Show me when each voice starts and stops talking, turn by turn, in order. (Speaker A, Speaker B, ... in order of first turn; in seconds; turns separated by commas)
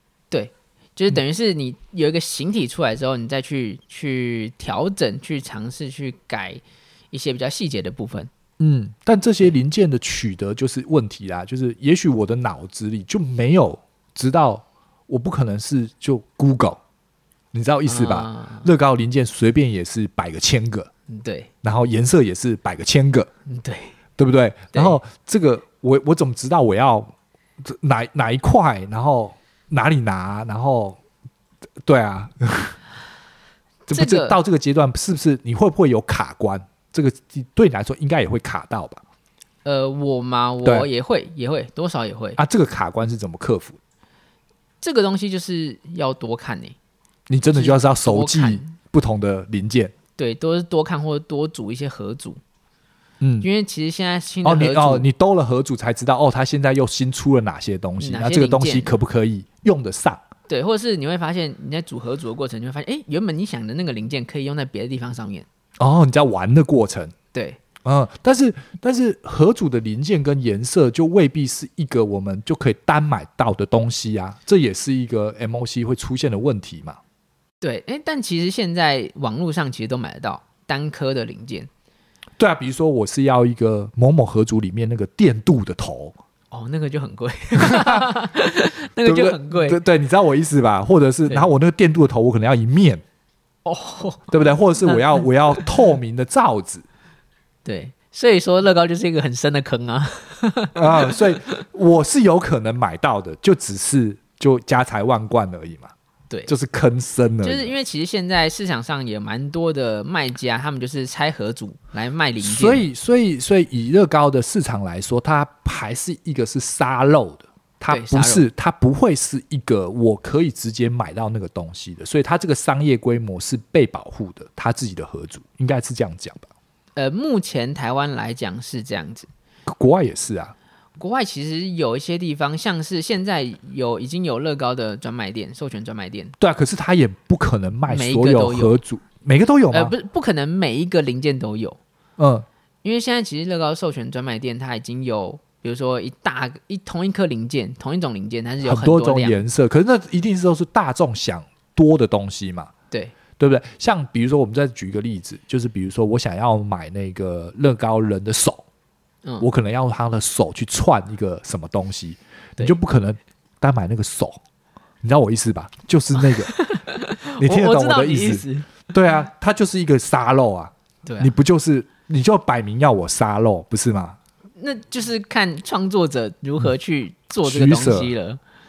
Speaker A: 0.3-8.3, Speaker B: 8.6-16.8, Speaker B: 17.5-20.9, Speaker A: 17.9-18.7, Speaker A: 21.1-21.5, Speaker B: 21.6-23.3, Speaker A: 23.5-23.9, Speaker B: 24.2-31.0, Speaker B: 31.8-32.8, Speaker B: 33.9-39.0, Speaker A: 33.9-34.4, Speaker A: 39.6-42.4, Speaker B: 42.4-43.8, Speaker A: 44.8-46.8, Speaker B: 47.3-49.9, Speaker A: 47.5-48.7, Speaker A: 50.2-52.4, Speaker B: 53.2-53.5, Speaker A: 53.4-55.1, Speaker B: 54.4-60.2, Speaker A: 58.0-58.9, Speaker A: 60.5-65.5, Speaker B: 65.8-67.1, Speaker A: 67.3-67.6, Speaker B: 67.8-77.0, Speaker A: 77.6-81.7, Speaker B: 82.4-86.2, Speaker A: 86.5-89.8, Speaker B: 87.6-88.1, Speaker B: 89.0-93.0, Speaker A: 93.6-95.8, Speaker B: 94.3-96.8, Speaker A: 97.6-101.6, Speaker B: 100.7-105.9, Speaker B: 106.5-107.7, Speaker A: 107.4-112.8, Speaker B: 112.4-126.5, Speaker A: 117.9-118.4, Speaker A: 127.0-129.3, Speaker B: 129.7-130.5, Speaker A: 131.0-136.3, Speaker B: 136.4-139.9, Speaker A: 137.9-138.8, Speaker A: 139.7-141.8, Speaker B: 142.2-142.4, Speaker A: 142.8-149.4, Speaker B: 148.6-152.7, Speaker B: 153.4-158.6, Speaker B: 159.4-164.4, Speaker B: 165.0-166.5, Speaker A: 166.2-168.8, Speaker B: 167.4-174.2, Speaker A: 171.0-171.3, Speaker A: 174.6-178.4, Speaker B: 177.4-178.1